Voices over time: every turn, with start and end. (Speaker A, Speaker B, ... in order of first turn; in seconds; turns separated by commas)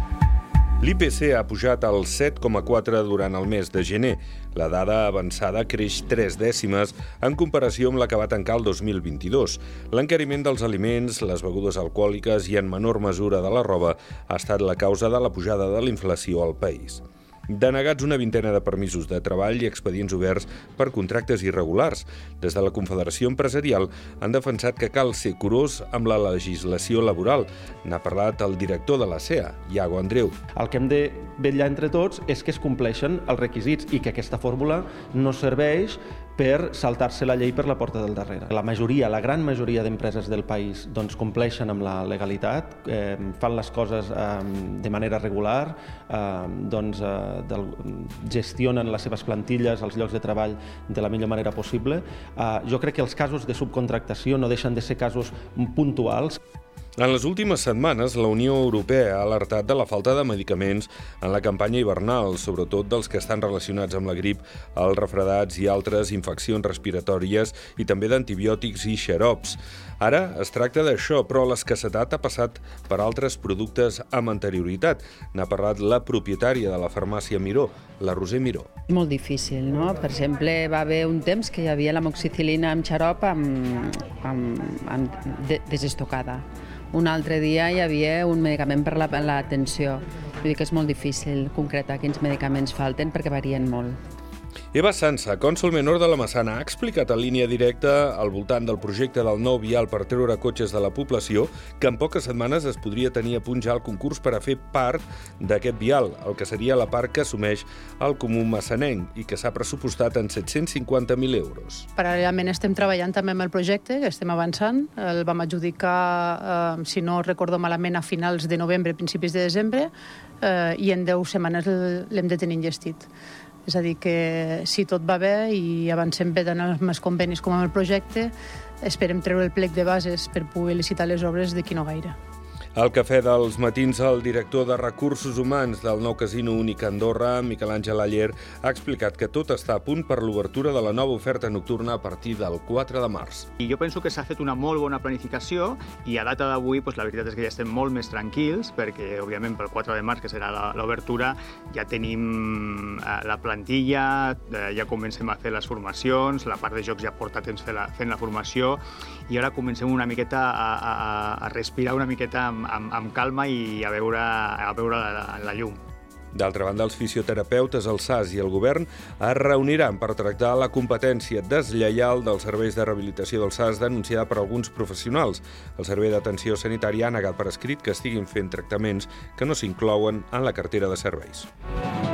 Speaker A: 0.8-30.3, Speaker B: 30.6-56.4, Speaker A: 57.0-78.7, Speaker C: 78.9-94.0, Speaker A: 94.7-111.9, Speaker D: 112.0-123.1, Speaker D: 123.6-132.2, Speaker A: 132.7-143.5, Speaker E: 143.6-165.8, Speaker A: 166.3-181.5